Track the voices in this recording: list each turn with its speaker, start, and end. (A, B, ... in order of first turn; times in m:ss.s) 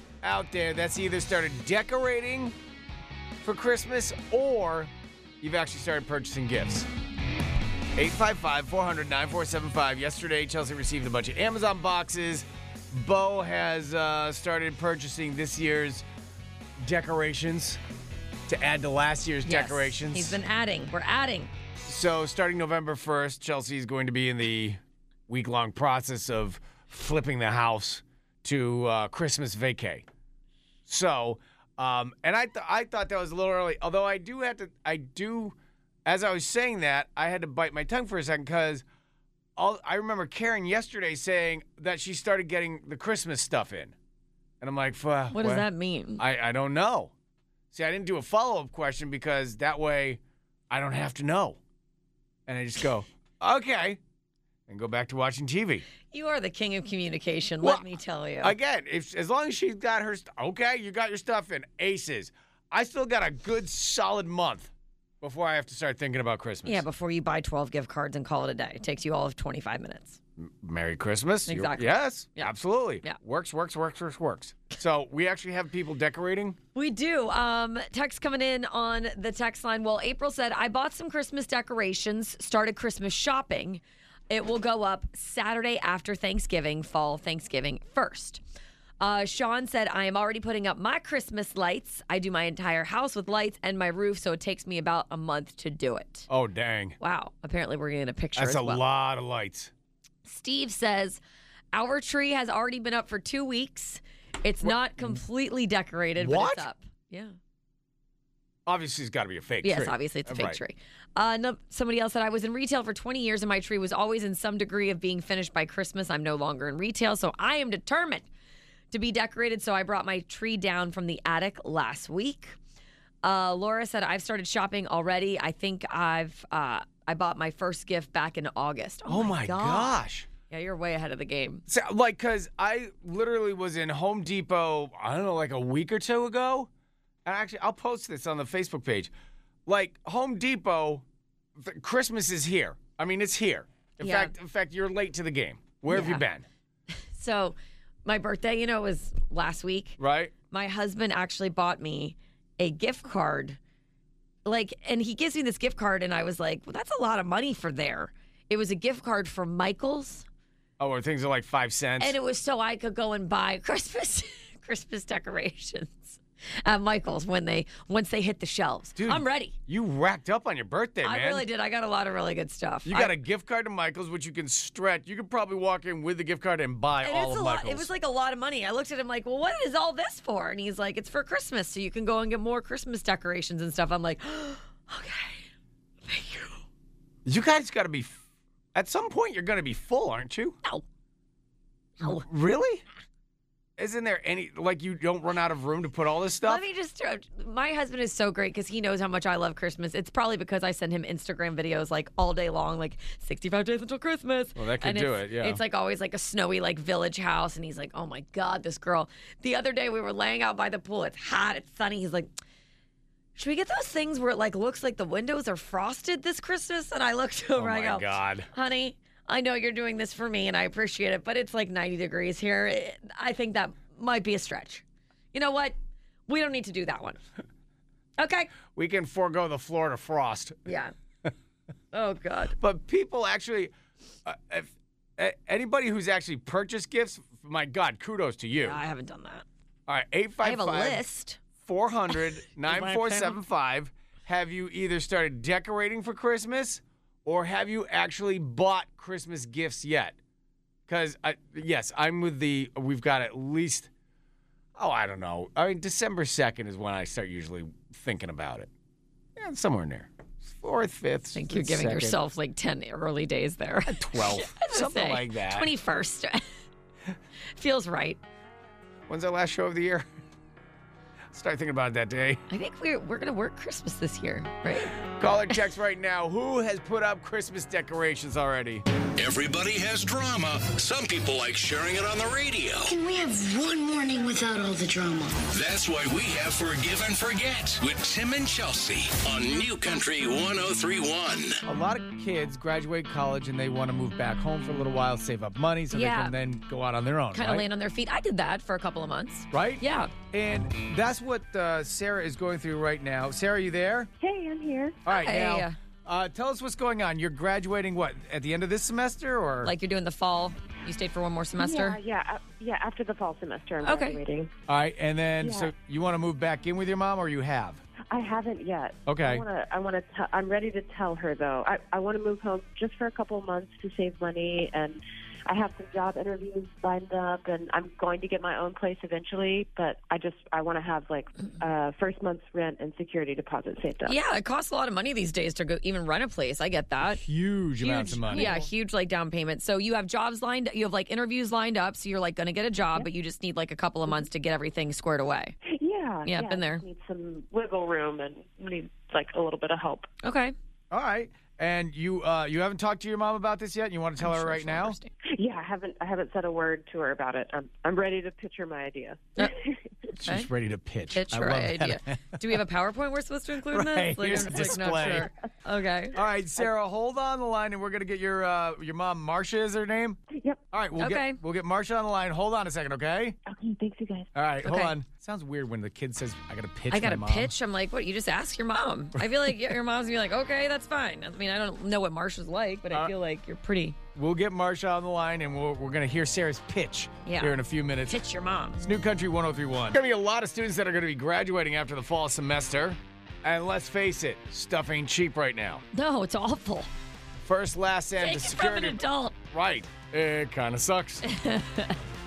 0:00.2-0:02.5 A
0:03.4-0:06.9 A
0:08.0-0:16.1 A
0:16.8-0:17.8 A
0:18.5-0:20.4 A
0:19.4-0:21.5 B
0:21.9-0:30.1 A
0:30.9-0:38.8 A
0:39.6-0:44.0 A
0:44.6-0:47.1 A
0:45.3-0:46.2 B
0:47.7-0:51.6 A
0:52.5-0:54.0 A
0:54.7-0:55.8 A
0:56.1-0:58.6 B
0:57.6-0:57.9 A
0:58.4-1:06.8 A
1:06.6-1:10.2 B
1:10.4-1:16.6 A
1:11.5-1:13.2 B
1:16.8-1:28.4 B
1:29.0-1:36.3 B
1:36.3-1:37.0 A
1:37.0-1:38.8 B
1:38.4-1:39.7 A
1:40.2-1:41.2 B
1:41.7-1:47.4 B
1:44.6-1:45.2 A
1:46.2-1:46.7 A
1:48.7-1:50.6 A
1:49.6-1:58.3 B
1:58.9-2:02.6 B
2:03.2-2:10.0 B
2:09.1-2:10.3 A
2:10.5-2:11.6 B
2:11.7-2:16.7 A
2:17.2-2:19.1 A
2:19.7-2:21.0 A
2:21.6-2:26.4 A
2:24.0-2:24.3 B
2:25.9-2:26.2 B
2:26.9-2:30.0 B
2:30.0-2:30.3 A
2:30.5-2:33.6 B
2:34.4-2:40.3 B
2:40.8-2:42.2 A
2:42.0-2:49.6 B
2:49.0-2:51.5 A
2:51.0-2:53.2 B
2:52.9-2:57.9 A
2:57.0-3:05.5 B
3:06.1-3:06.6 B
3:07.2-3:08.2 A
3:08.7-3:10.6 A
3:12.0-3:12.3 B
3:12.0-3:12.8 A
3:13.8-3:16.6 A
3:16.5-3:32.3 B
3:24.6-3:25.6 A
3:33.4-3:45.8 B
3:37.6-3:38.5 A
3:46.3-3:47.2 B
3:48.2-3:48.5 B
3:48.7-3:50.7 A
3:50.7-3:50.9 B
3:51.9-3:52.6 B
3:52.6-3:53.7 A
3:54.2-3:58.8 A
3:58.6-3:59.4 B
3:59.9-4:01.0 A
4:00.4-4:01.4 B
4:01.6-4:10.2 A
4:02.6-4:03.4 B
4:10.9-4:13.9 A
4:14.8-4:18.7 A
4:19.4-4:22.2 A
4:21.3-4:26.5 B
4:23.9-4:25.7 A
4:27.6-4:28.2 B
4:29.1-4:30.1 A
4:31.3-4:32.4 A
4:32.5-4:35.0 B
4:35.0-4:38.8 A
4:39.2-4:42.9 C
4:42.9-4:45.4 D
4:45.5-4:51.6 C
4:51.6-4:57.7 A
4:55.9-4:56.4 B
4:57.3-5:00.1 B
4:59.5-5:04.1 A
5:04.2-5:05.0 E
5:05.1-5:09.7 A
5:05.1-5:05.8 B
5:09.6-5:12.0 B
5:11.6-5:14.5 E
5:13.8-5:14.2 B
5:14.7-5:17.8 A
5:15.4-5:15.7 E
5:18.1-5:34.2 E
5:19.1-5:19.4 A
5:34.1-5:37.2 B
5:37.0-5:38.6 A
5:37.8-5:45.6 B
5:38.3-5:38.7 E
5:45.7-5:50.1 E
5:46.2-5:46.8 B
5:50.2-5:50.6 B
5:50.9-5:55.0 A
5:54.2-5:55.1 B
5:55.2-5:59.8 E
6:00.2-6:02.4 A
6:01.1-6:06.2 B
6:03.7-6:05.3 A
6:06.1-6:10.2 A
6:10.3-6:10.6 E
6:10.7-6:13.4 A
6:11.0-6:11.4 B
6:13.5-6:14.3 E
6:14.4-6:17.5 A
6:14.6-6:14.9 B
6:16.9-6:24.0 B
6:24.2-6:28.2 A
6:27.2-6:28.8 B
6:28.8-6:35.8 A
6:35.9-6:36.9 B
6:37.4-6:41.3 A
6:38.2-6:39.4 B
6:41.2-6:42.0 B